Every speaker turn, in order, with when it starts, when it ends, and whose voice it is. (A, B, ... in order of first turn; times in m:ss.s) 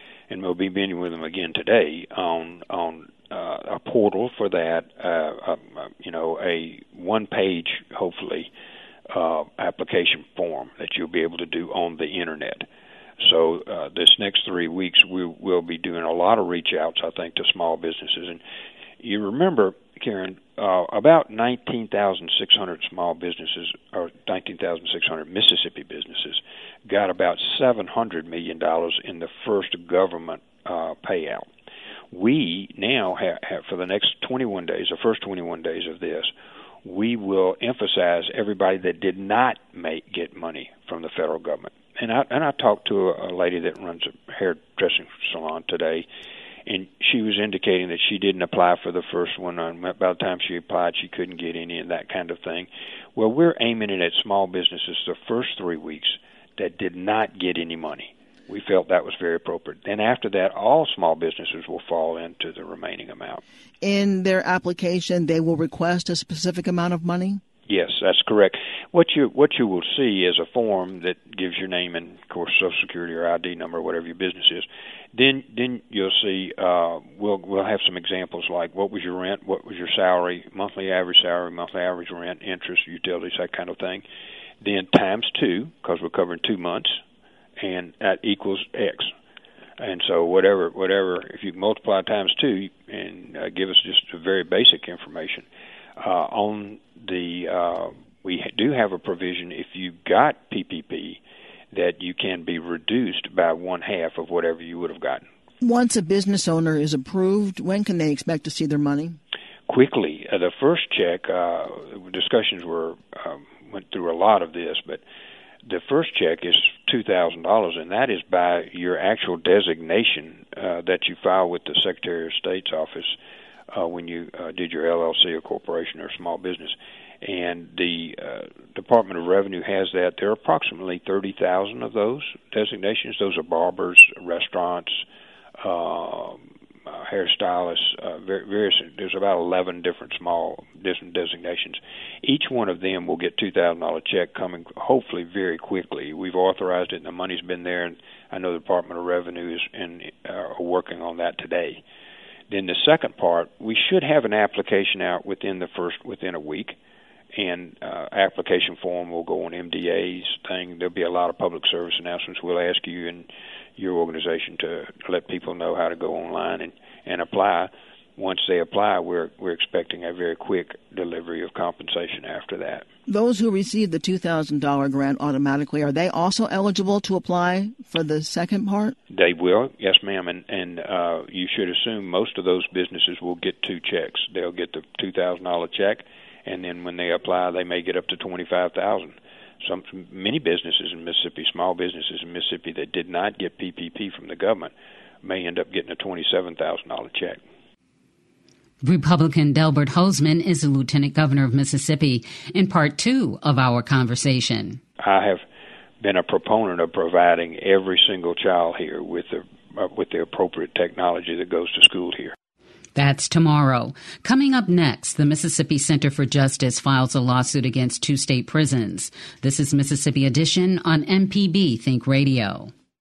0:00.3-0:08.5 A
0:09.1-0:12.7 A
0:13.2-0:18.4 A
0:19.0-0:31.5 A
0:32.1-0:36.3 A
0:36.8-0:46.0 A
0:46.6-1:03.4 A
1:03.8-1:07.4 B
1:07.7-1:24.0 A
1:24.6-1:27.0 A
1:27.6-1:29.1 A
1:29.8-1:35.5 A
1:36.0-1:41.2 A
1:41.7-1:45.2 A
1:45.6-1:49.2 B
1:49.7-1:55.0 A
1:55.6-2:03.2 A
2:03.7-2:15.0 A
2:15.6-2:31.8 A
2:32.5-2:36.8 A
2:37.3-2:52.8 A
2:53.1-2:59.0 B
2:59.1-3:14.7 A
3:15.2-3:17.4 A
3:18.8-3:24.8 C
3:25.0-3:25.4 A
3:26.0-3:32.3 A
3:32.9-3:42.7 C